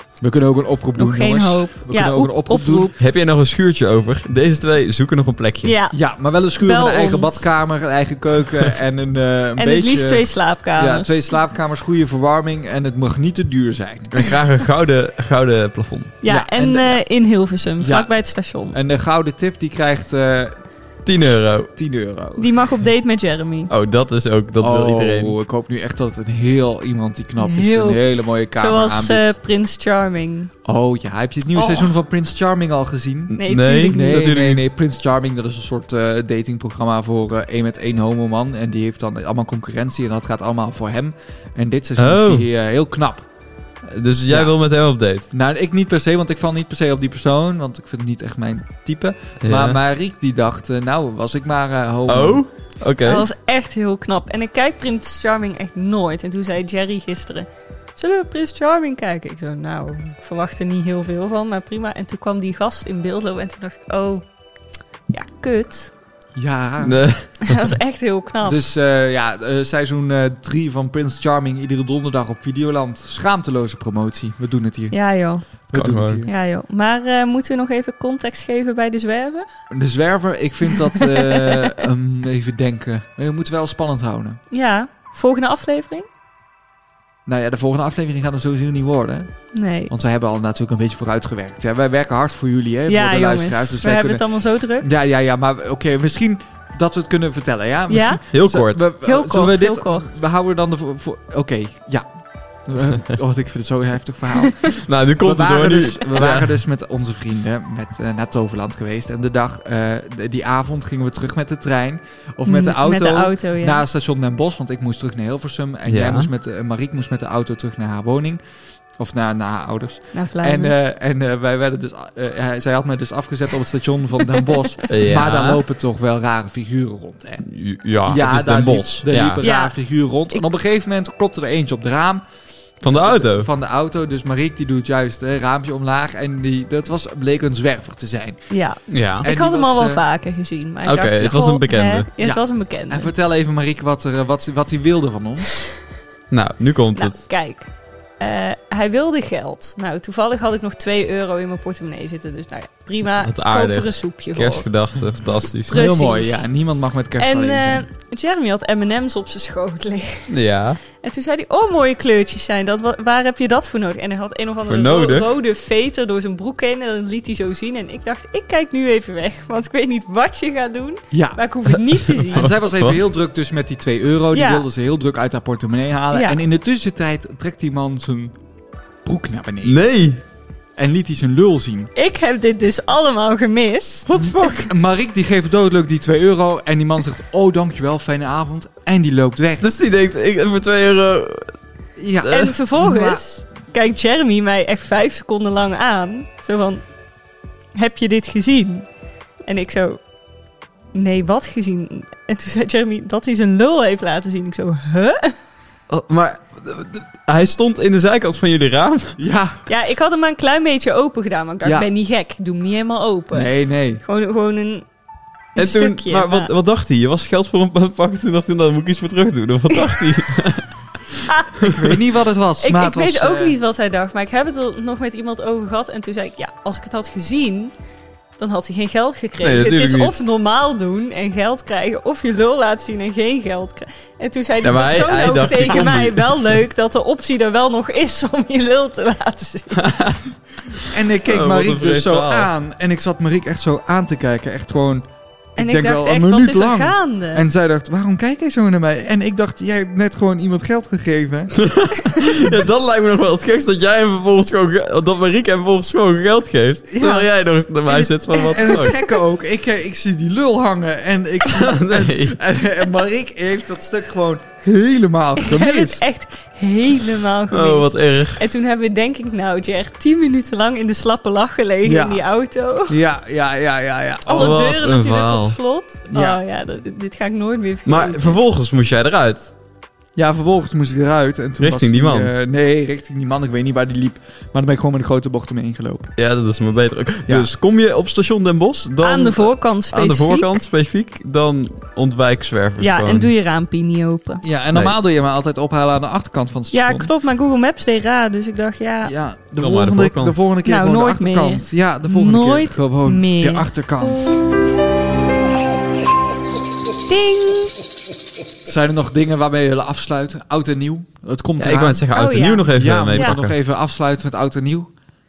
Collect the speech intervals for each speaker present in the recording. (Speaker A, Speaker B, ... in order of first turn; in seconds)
Speaker A: 0.2-2.9, 5.9-14.2, 16.2-17.0, 17.8-20.6, 21.8-22.5, 24.6-29.3, 30.6-43.3, 44.3-44.5, 45.3-52.4, 66.3-67.0, 68.4-75.0, 75.7-76.3, 79.7-84.4, 87.3-89.3, 89.9-94.2, 94.8-102.1, 102.7-118.4, 119.0-127.5, 128.1-132.2, 132.8-138.4, 139.2-140.0, 142.2-145.5, 155.7-157.9, 171.1-171.4, 172.3-178.4, 179.0-179.8, 180.8-181.9, 184.6-189.7, 192.0-193.2, 209.2-209.7, 213.3-214.0, 221.7-223.6, 240.9-251.6, 256.9-257.3, 257.9-266.1, 271.8-272.2, 272.9-274.6, 276.1-276.4, 280.2-286.1, 294.4-297.1, 299.0-304.4, 308.6-312.1, 312.7-314.9
Speaker B: 1.0-3.0, 5.6-6.0, 6.6-7.5, 9.6-11.3, 16.2-18.8, 22.4-23.7, 27.4-30.5, 31.6-31.9, 33.4-34.2, 53.0-64.2, 65.1-65.9, 67.4-68.6, 74.9-75.5, 76.2-79.5, 80.8-81.8, 84.5-86.1, 89.5-89.9, 92.9-94.9, 97.9-98.2, 99.0-100.2, 112.5-113.8, 120.1-120.8, 129.4-129.8, 138.5-143.1, 147.0-154.7, 155.7-156.5, 157.2-160.3, 161.0-172.5, 174.3-174.7, 176.1-176.4, 181.9-184.1, 192.3-196.8, 197.8-198.9, 199.5-200.0, 200.9-205.4, 209.7-214.9, 215.6-216.5, 222.6-227.7, 228.4-239.8, 245.6-247.4, 258.3-259.1, 265.4-273.0, 274.3-278.4, 289.0-290.6, 292.8-294.4, 296.7-299.1, 300.6-303.7, 307.1-307.8, 312.1-313.4
Speaker C: 3.0-5.7, 14.1-16.2, 21.1-21.7, 23.7-25.4, 33.3-34.7, 42.0-42.5, 43.9-45.3, 49.4-49.8, 52.1-53.3, 66.8-67.7, 75.7-76.2, 98.3-98.8, 104.8-106.6, 115.9-116.3, 124.9-125.6, 127.4-129.4, 132.8-133.5, 138.9-139.2, 140.8-142.1, 146.3-147.2, 153.2-155.8, 160.3-160.8, 164.7-165.3, 172.3-173.0, 179.6-180.2, 184.1-184.7, 189.6-191.5, 205.9-209.2, 215.6-220.7, 229.4-230.2, 234.6-236.6, 239.7-240.2, 240.7-242.5, 251.6-258.9, 261.5-262.4, 267.5-268.4, 274.3-275.6, 277.9-279.5, 281.6-282.3, 286.2-293.3, 299.6-300.4, 311.6-313.5